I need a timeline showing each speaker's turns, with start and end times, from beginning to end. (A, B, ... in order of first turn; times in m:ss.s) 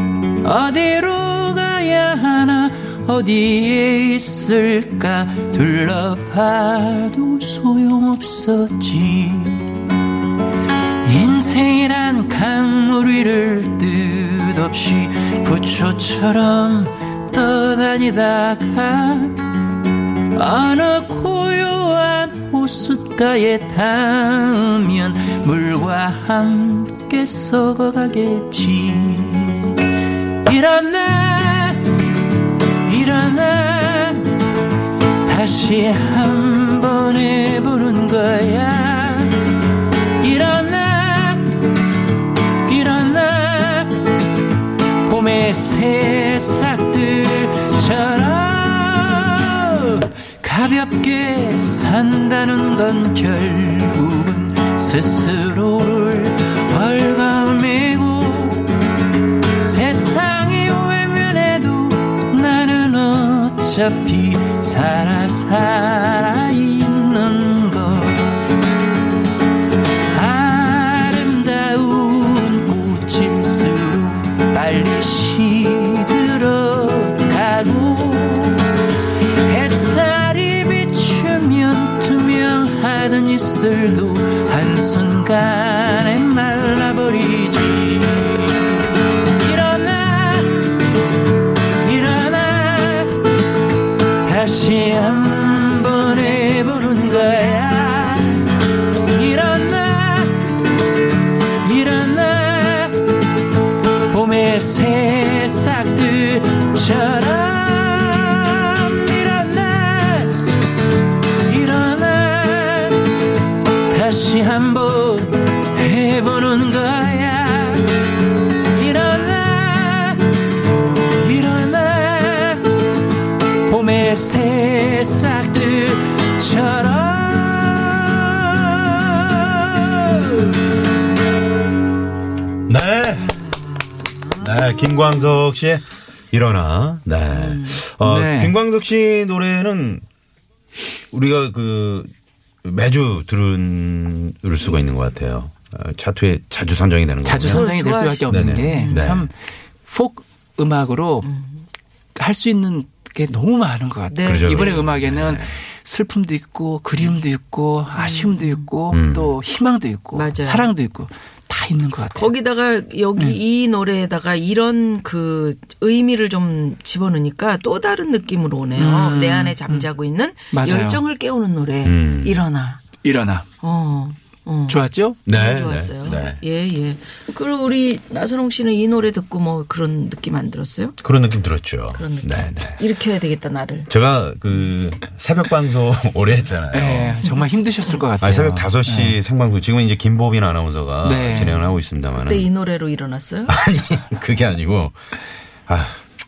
0:00.4-0:09.8 A
0:11.0-0:19.5 A
0:20.3-0:32.1 A
0:32.8-0:34.4 A
0:35.2-0:39.6 A
0:40.2-0:41.8 A
0:42.6-0:44.2 A
0:45.0-0:58.8 A
0:59.5-1:08.5 A
1:10.1-1:30.8 A
1:31.8-1:33.3 A
1:34.2-1:40.6 A
1:41.6-1:43.4 A
1:44.1-1:50.6 A
1:51.4-1:53.3 A
1:53.8-2:02.9 A
2:03.6-2:10.3 A
2:12.7-2:13.4 B
2:13.4-2:14.5 C
2:14.4-2:20.0 B
2:17.4-2:17.7 C
2:18.0-2:18.6 A
2:21.1-2:22.1 B
2:22.6-2:27.7 B
2:27.2-2:29.4 A
2:27.5-2:29.1 C
2:28.3-2:29.3 B
2:29.9-2:31.4 A
2:32.1-2:42.3 A
2:34.1-2:34.8 C
2:34.2-2:35.6 B
2:38.0-2:38.4 C
2:38.9-2:39.3 B
2:40.1-2:40.7 C
2:42.2-2:52.8 C
2:43.2-2:43.4 A
2:48.7-2:49.9 A
2:50.5-2:51.0 A
2:51.8-2:52.4 B
2:53.0-2:53.5 A
2:53.6-2:54.8 C
2:54.7-2:55.3 A
2:55.2-2:56.4 B
2:55.3-3:01.0 C
3:01.0-3:02.8 B
3:01.9-3:03.9 C
3:03.9-3:07.3 B
3:06.7-3:09.2 A
3:08.2-3:12.5 B
3:11.0-3:11.7 A
3:12.2-3:13.5 C
3:13.5-3:14.9 B
3:15.7-3:16.0 B